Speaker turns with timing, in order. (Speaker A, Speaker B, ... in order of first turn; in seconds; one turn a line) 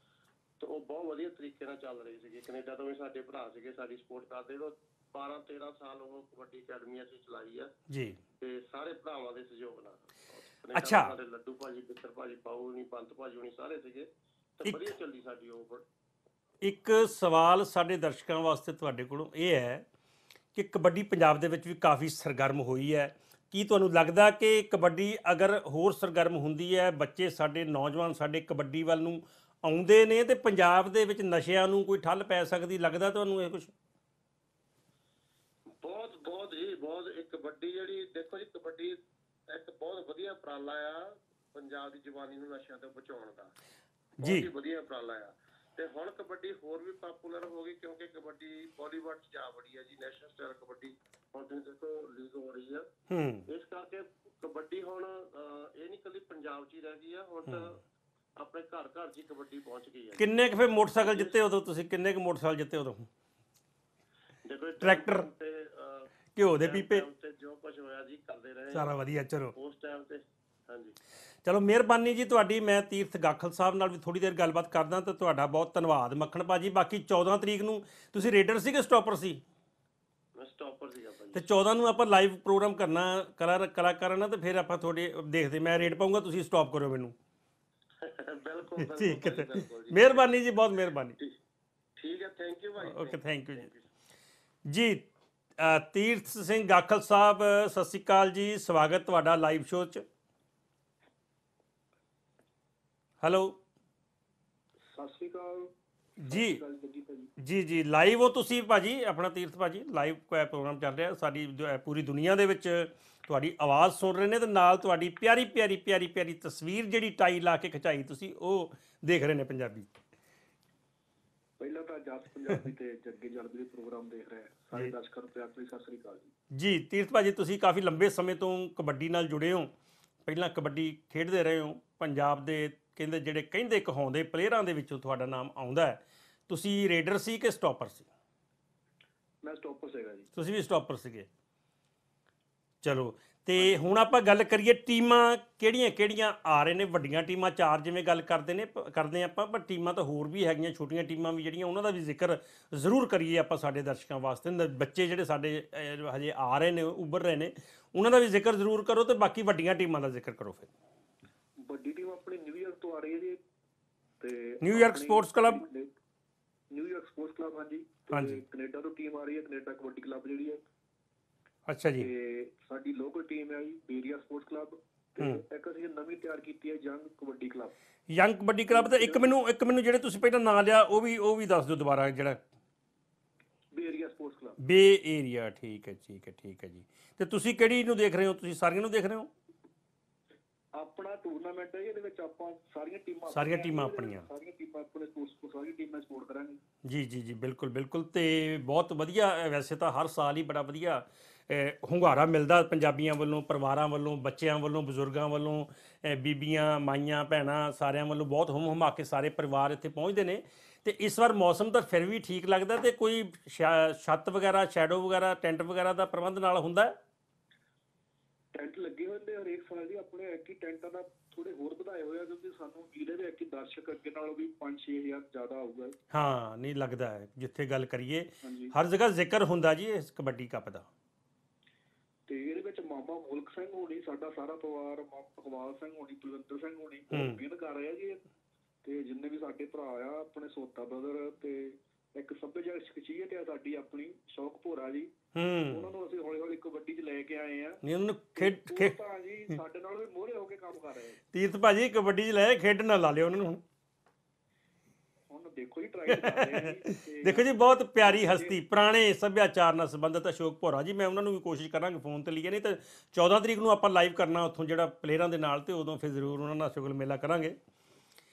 Speaker A: 0.6-7.7
Speaker B: 7.9-8.2
Speaker A: 8.4-14.1
Speaker B: 10.7-11.1
Speaker A: 14.6-15.8
Speaker B: 14.6-14.9
Speaker B: 16.6-19.8
Speaker B: 20.5-33.7
Speaker A: 35.8-43.5
Speaker B: 44.2-44.5
Speaker A: 44.2-52.9
Speaker B: 53.1-53.5
Speaker A: 53.5-57.8
Speaker A: 58.4-60.2
Speaker B: 60.1-63.1
Speaker A: 61.0-61.4
Speaker A: 64.4-68.9
Speaker B: 64.8-65.3
Speaker B: 66.3-67.0
Speaker B: 68.7-69.5
Speaker A: 69.5-71.0
Speaker B: 71.4-79.4
Speaker A: 80.3-81.4
Speaker B: 81.3-87.1
Speaker A: 88.0-90.5
Speaker B: 88.8-91.2
Speaker A: 92.0-93.8
Speaker B: 92.8-93.7
Speaker B: 94.7-95.0
Speaker B: 95.6-100.0
Speaker B: 103.2-103.6
Speaker C: 104.9-107.3
Speaker B: 106.2-106.6
Speaker B: 107.4-119.9
Speaker C: 121.6-126.3
Speaker B: 126.5-129.7
Speaker B: 130.2-138.1
Speaker C: 139.4-140.3
Speaker B: 140.3-141.3
Speaker B: 142.8-160.7
Speaker C: 161.6-163.4
Speaker C: 164.2-165.9
Speaker B: 164.6-165.6
Speaker C: 166.7-170.6
Speaker B: 168.1-168.4
Speaker B: 171.7-172.1
Speaker C: 172.0-177.7
Speaker B: 178.1-182.4
Speaker C: 178.7-179.3
Speaker C: 183.7-184.6
Speaker B: 184.6-189.3
Speaker C: 190.7-196.6
Speaker B: 193.3-194.2
Speaker B: 196.8-217.0
Speaker C: 218.5-225.9
Speaker B: 226.1-230.9
Speaker C: 228.4-228.7
Speaker C: 232.3-238.2
Speaker B: 237.1-237.4
Speaker C: 238.8-245.1
Speaker B: 245.3-245.9
Speaker C: 245.7-247.8
Speaker B: 247.8-248.9
Speaker C: 248.3-251.2
Speaker B: 251.3-253.6
Speaker C: 255.3-258.6
Speaker B: 256.1-267.6